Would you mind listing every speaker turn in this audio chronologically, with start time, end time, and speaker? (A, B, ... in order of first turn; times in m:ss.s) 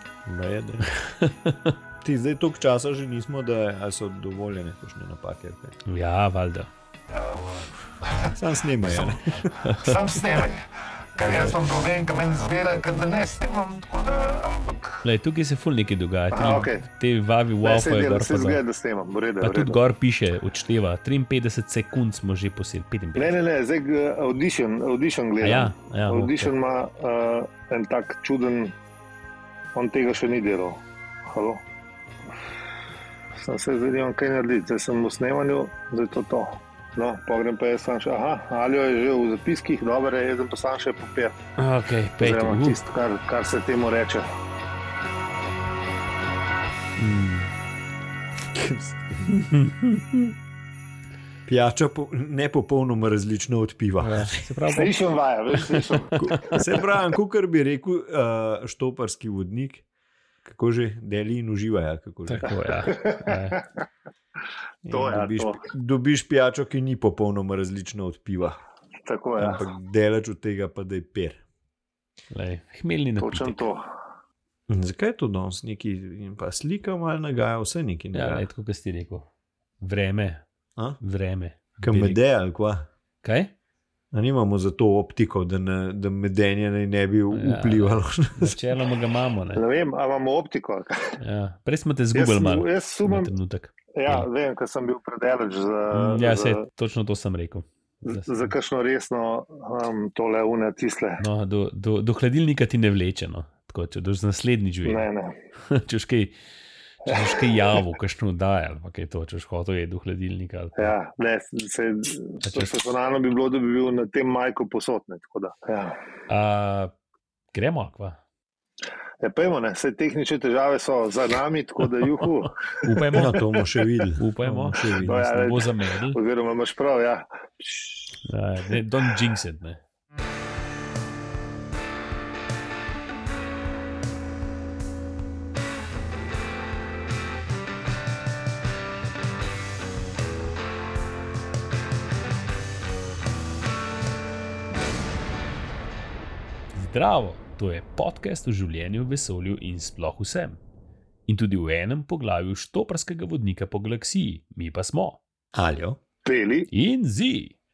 0:00.3-0:00.8 A
0:00.8-0:01.7 B
0:02.0-0:05.8 A
0:05.9-0:06.7 B
0:08.3-0:09.6 A
0:09.6-0:10.0 B
0:09.8-0:10.6 C
0:11.2-0:14.8 C
0:15.0-0:18.6 B
0:16.3-0:16.8 C
0:17.6-0:19.8 C
0:19.4-0:23.4 B
0:23.2-0:28.8 C
0:25.4-0:26.5 B
0:29.8-0:31.6 C
0:33.4-0:41.4 C
0:41.6-0:42.8 B
0:42.2-0:44.3 C
0:47.0-0:47.5 B
0:48.5-0:49.3 A
0:49.3-0:50.3 B
0:51.5-0:54.3 A
0:54.0-0:55.0 B
0:54.7-0:56.6 C
0:55.6-0:56.6 B
0:56.2-0:59.8 A
1:00.4-1:02.5 A
1:02.3-1:03.6 B
1:02.9-1:03.6 C
1:04.8-1:08.6 A
1:04.9-1:05.6 C
1:09.0-1:09.7 C
1:09.4-1:11.4 A
1:12.3-1:13.6 B
1:13.2-1:13.8 C
1:14.7-1:18.5 A
1:18.1-1:19.3 B
1:19.8-1:20.4 B
1:21.0-1:22.2 B
1:21.8-1:22.9 A
1:23.2-1:23.5 B
1:24.1-1:28.6 A
1:27.3-1:29.6 B
1:29.6-1:31.2 C
1:31.2-1:34.3 B
1:32.1-1:33.3 C
1:34.0-1:36.6 C
1:35.9-1:38.5 B
1:38.0-1:41.2 C
1:41.2-1:45.0 B
1:44.8-1:45.4 C
1:45.7-1:46.4 B
1:47.0-1:50.9 B
1:47.1-1:47.9 C
1:50.8-1:56.0 C
1:52.4-1:52.8 B
1:56.3-1:56.9 B
1:57.5-1:58.2 B
1:59.2-2:03.2 C
2:02.8-2:03.4 B
2:03.1-2:05.3 A
2:04.2-2:06.2 B
2:05.0-2:08.2 C
2:08.3-2:09.8 B
2:26.7-2:30.6 B
2:31.3-2:35.2 B
2:35.5-2:36.0 A
2:36.2-2:36.7 C
2:36.7-2:37.5 B